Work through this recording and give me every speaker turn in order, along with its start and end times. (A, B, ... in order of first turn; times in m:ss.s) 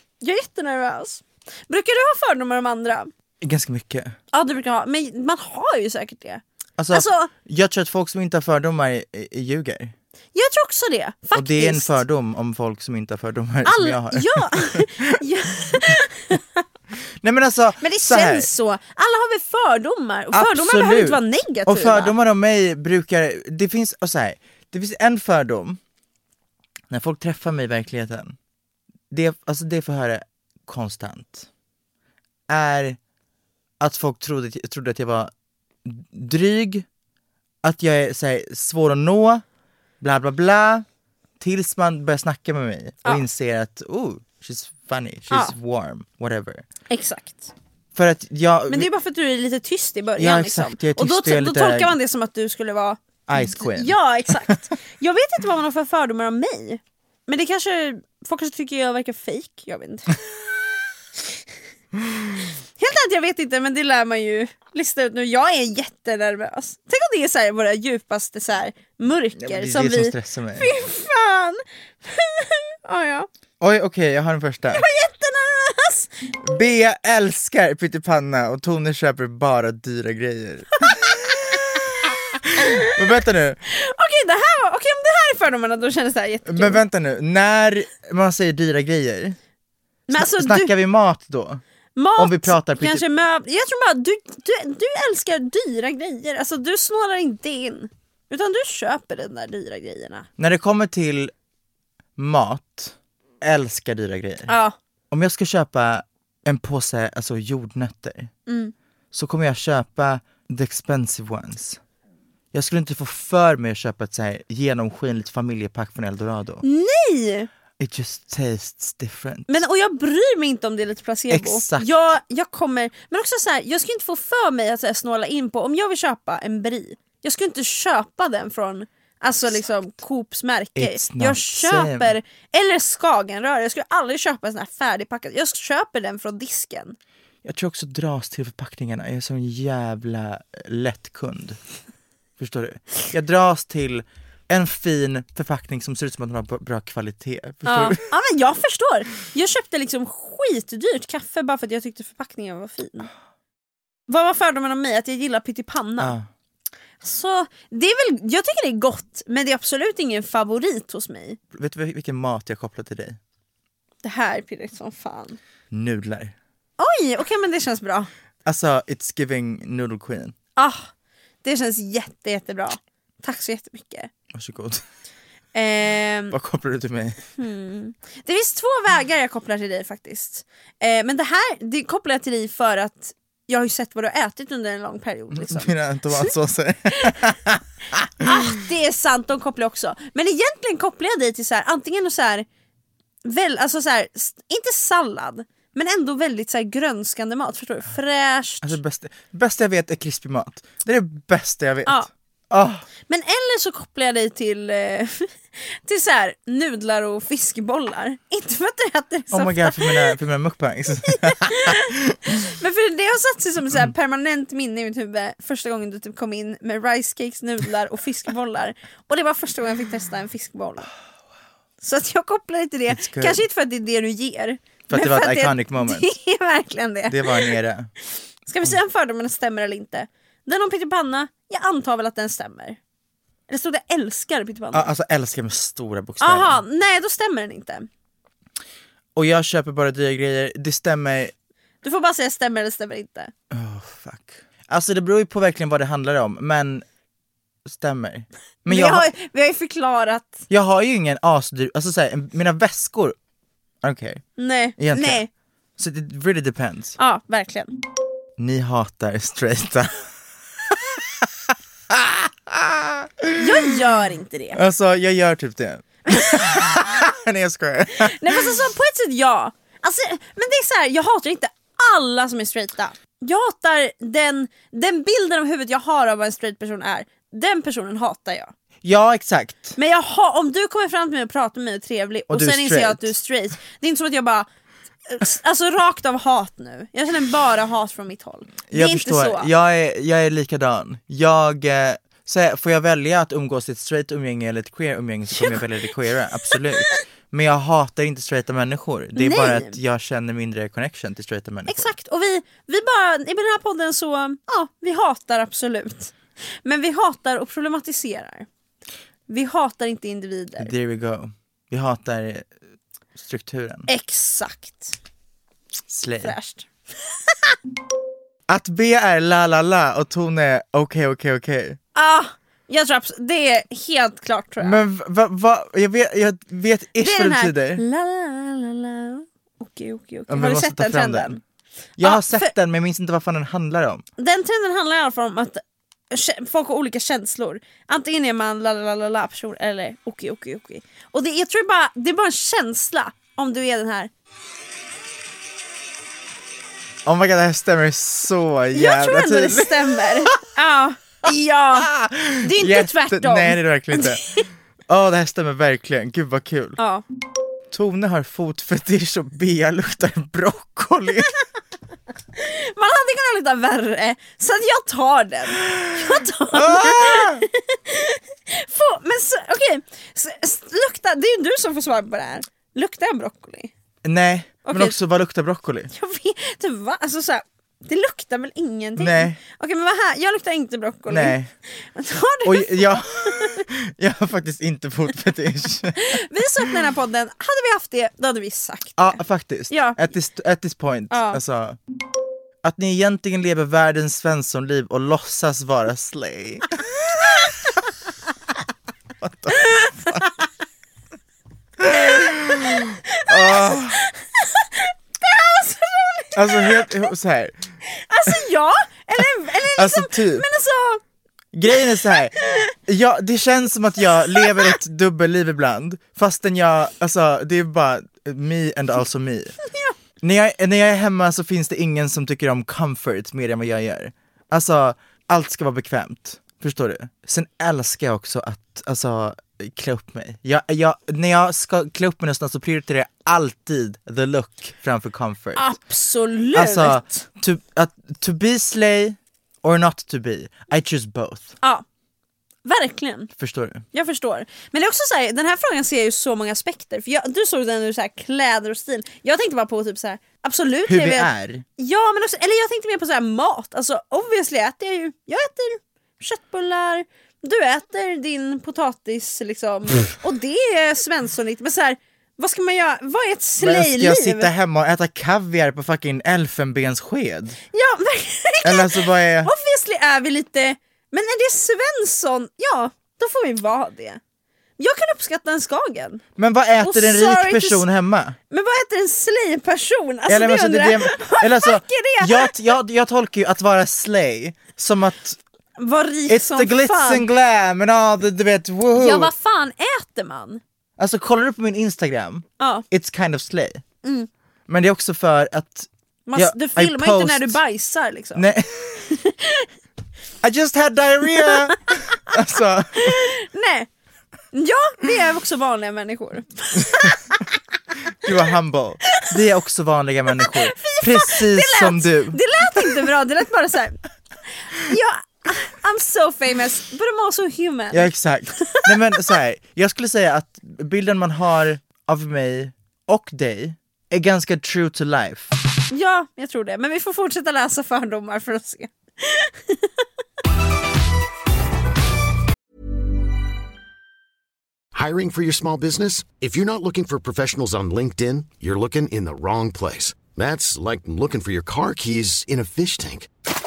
0:00.2-0:03.1 A
0:03.4-0:04.1 B
0:04.3-0:07.3 A
0:06.8-0:09.9 B
0:10.3-0:12.0 A
0:11.3-0:15.1 B
0:13.6-0:16.6 A
0:17.2-0:18.5 B
0:17.8-0:22.1 A
0:20.3-0:25.8 B
0:26.9-0:28.4 B
0:29.1-0:31.5 B
0:32.5-0:33.0 B
0:33.8-0:35.3 B
0:35.8-0:36.8 B
0:37.6-0:39.4 B
0:40.0-0:40.8 B
0:41.4-0:46.6 B
0:46.9-0:47.5 A
0:47.9-0:48.9 B
0:48.7-1:00.2 A
0:50.2-0:51.9 B
0:53.3-0:54.0 B
1:02.8-1:13.3 A
1:09.4-1:10.7 B
1:13.6-1:14.8 B
1:14.7-1:16.3 A
1:16.4-1:21.6 B
1:22.5-1:23.6 B
1:22.6-1:22.9 A
1:23.7-1:26.8 A
1:26.5-1:29.4 B
1:30.1-1:30.7 A
1:30.1-1:31.6 B
1:32.0-1:40.3 A
1:32.2-1:33.0 B
1:40.4-1:41.3 B
1:42.2-1:44.6 B
1:44.5-1:44.7 A
1:45.1-1:48.3 B
1:48.5-1:48.7 A
1:49.1-1:51.8 B
1:52.5-1:56.6 B
1:56.6-1:57.5 A
1:57.8-1:59.6 B
1:59.5-2:17.0 A
2:01.3-2:02.0 B
2:10.8-2:12.1 B
2:17.4-2:21.6 B
2:22.4-2:28.0 B
2:27.6-2:33.1 A
2:34.1-2:36.2 A
2:36.0-2:36.3 B
2:37.0-2:41.4 A
2:41.5-2:43.2 B
2:44.0-2:45.4 A
2:45.7-2:46.3 B
2:46.8-2:48.1 A
2:48.4-2:50.3 B
2:50.6-2:50.9 A
2:51.4-2:54.1 A
2:54.3-2:54.8 B
2:55.5-2:56.4 A
2:56.3-2:57.2 B
2:57.4-3:06.3 A
3:05.3-3:08.4 B
3:06.9-3:07.2 A
3:08.2-3:12.4 A
3:13.2-3:18.8 A
3:18.6-3:22.9 B
3:23.1-3:30.2 A
3:29.3-3:32.2 B
3:31.0-3:40.9 A
3:41.8-3:47.6 A
3:42.9-3:43.4 B
3:44.9-3:46.1 B
3:47.1-3:47.9 B
3:48.5-3:52.8 A
3:53.5-3:54.9 A
3:54.7-3:56.6 B
3:56.2-3:57.9 A
3:59.2-4:01.3 B
4:01.8-4:03.3 A
4:03.5-4:06.8 B
4:07.6-4:09.1 B
4:08.7-4:10.4 A
4:10.5-4:13.2 B
4:13.8-4:14.2 B
4:14.4-4:15.3 A
4:14.8-4:15.2 B
4:15.8-4:17.0 B
4:17.0-4:17.7 A
4:18.4-4:20.0 B
4:20.7-4:21.3 B
4:21.9-4:23.7 B
4:23.4-4:24.6 A
4:24.5-4:28.5 B
4:26.1-4:26.8 A
4:28.0-4:38.5 A
4:38.8-4:39.8 B
4:39.8-4:44.5 A
4:42.3-4:43.1 B
4:45.1-4:49.5 A
4:48.7-5:01.9 B
4:56.5-4:57.0 A
4:59.2-4:59.8 A
5:01.7-5:06.1 A
5:06.6-5:08.5 A
5:09.3-5:10.7 A
5:10.6-5:12.5 B
5:13.2-5:13.9 B
5:13.9-5:15.0 A
5:15.9-5:16.4 B
5:16.2-5:16.7 A
5:18.5-5:21.8 B
5:21.9-5:24.8 A
5:24.6-5:27.8 B
5:27.0-5:31.4 A
5:30.3-5:31.4 B
5:32.0-5:34.0 B
5:32.0-5:32.5 A
5:34.2-5:44.1 A
5:47.0-5:50.3 B
5:48.7-5:54.4 A
5:51.8-5:56.8 B
5:56.8-5:57.0 A
5:57.7-6:01.4 B
6:02.4-6:13.7 A
6:05.7-6:07.5 B
6:14.0-6:15.9 B
6:14.6-6:15.0 A
6:15.9-6:21.4 A
6:19.0-6:19.4 B
6:21.1-6:21.5 B
6:21.9-6:23.6 A
6:22.4-6:26.2 B
6:26.0-6:29.2 A
6:29.0-6:31.8 B
6:29.7-6:30.0 A
6:31.1-6:31.4 A
6:32.6-6:37.2 B
6:39.2-6:40.2 B
6:39.6-6:40.3 A
6:41.8-6:44.0 B
6:41.9-6:47.0 A
6:46.3-6:47.6 B
6:47.9-6:51.0 A
6:49.7-6:50.5 B
6:51.5-6:59.6 B
6:52.3-6:52.7 A
6:54.3-6:54.7 A
6:59.6-6:59.9 A
7:00.2-7:15.7 B
7:15.6-7:17.2 A
7:16.5-7:21.6 B
7:22.6-7:23.3 A
7:23.4-7:23.8 B
7:23.9-7:44.5 A
7:30.8-7:31.6 B
7:43.6-7:47.6 B
7:47.7-7:54.2 A
7:48.6-7:49.5 B
7:54.8-7:56.2 A
7:56.4-7:58.4 B
7:56.8-7:57.8 A
7:58.5-8:02.6 A
8:00.3-8:05.4 B
8:05.8-8:07.2 A
8:06.3-8:09.3 B
8:08.9-8:10.6 A
8:11.0-8:13.8 B
8:12.6-8:12.8 A
8:14.0-8:14.3 A
8:14.7-8:17.6 B
8:16.3-8:18.5 A
8:18.3-8:19.1 B
8:19.0-8:19.7 A
8:20.4-8:23.3 B
8:21.4-8:21.7 A
8:22.9-8:23.9 A
8:24.5-8:27.5 A
8:28.2-8:33.1 B
8:30.4-8:34.0 A
8:34.6-8:39.3 A
8:37.9-8:45.5 B
8:45.9-8:49.9 A
8:54.9-9:03.3 C